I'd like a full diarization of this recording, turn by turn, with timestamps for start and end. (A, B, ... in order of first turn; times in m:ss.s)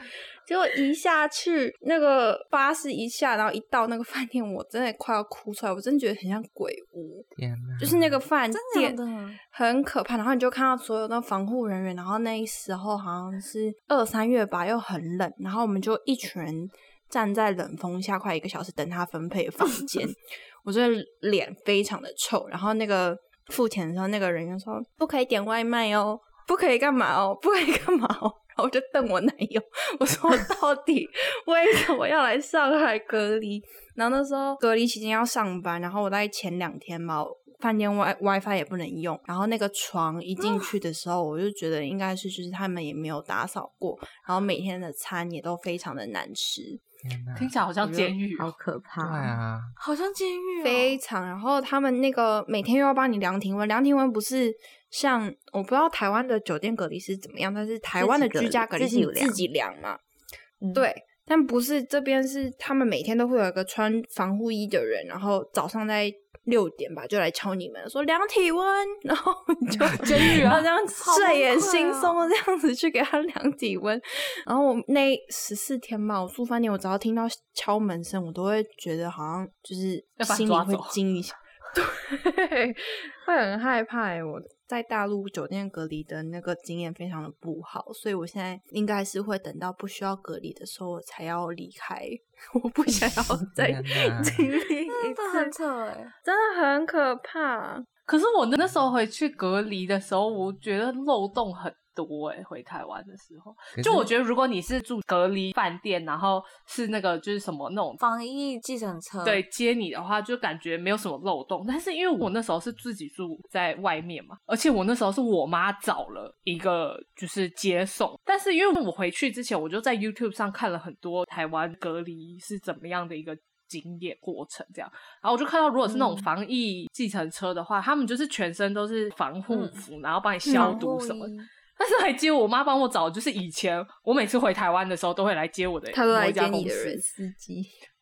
0:00.4-0:07.3 A
0:07.4-0:08.2 B
0:07.8-0:46.8 A
0:08.5-0:09.4 C
0:40.4-0:40.7 C
0:47.0-0:48.2 B
0:47.4-0:48.5 D
0:48.4-0:49.4 E
0:49.0-0:49.7 B
0:49.8-0:51.0 C
0:50.6-1:00.0 A
0:58.0-0:59.4 E
1:00.6-1:00.9 E
1:00.7-1:35.5 A
1:10.0-1:10.6 D
1:11.0-1:12.3 C
1:20.2-1:21.0 D
1:33.4-1:34.4 B
1:34.9-1:36.1 C
1:36.2-1:37.9 A
1:38.1-1:48.0 D
1:43.7-1:44.1 B
1:48.0-1:49.4 C
1:49.2-2:17.0 D
2:05.9-2:06.2 C
2:09.5-2:09.8 C
2:10.4-2:10.8 A
2:10.5-2:11.5 C
2:15.9-2:17.7 A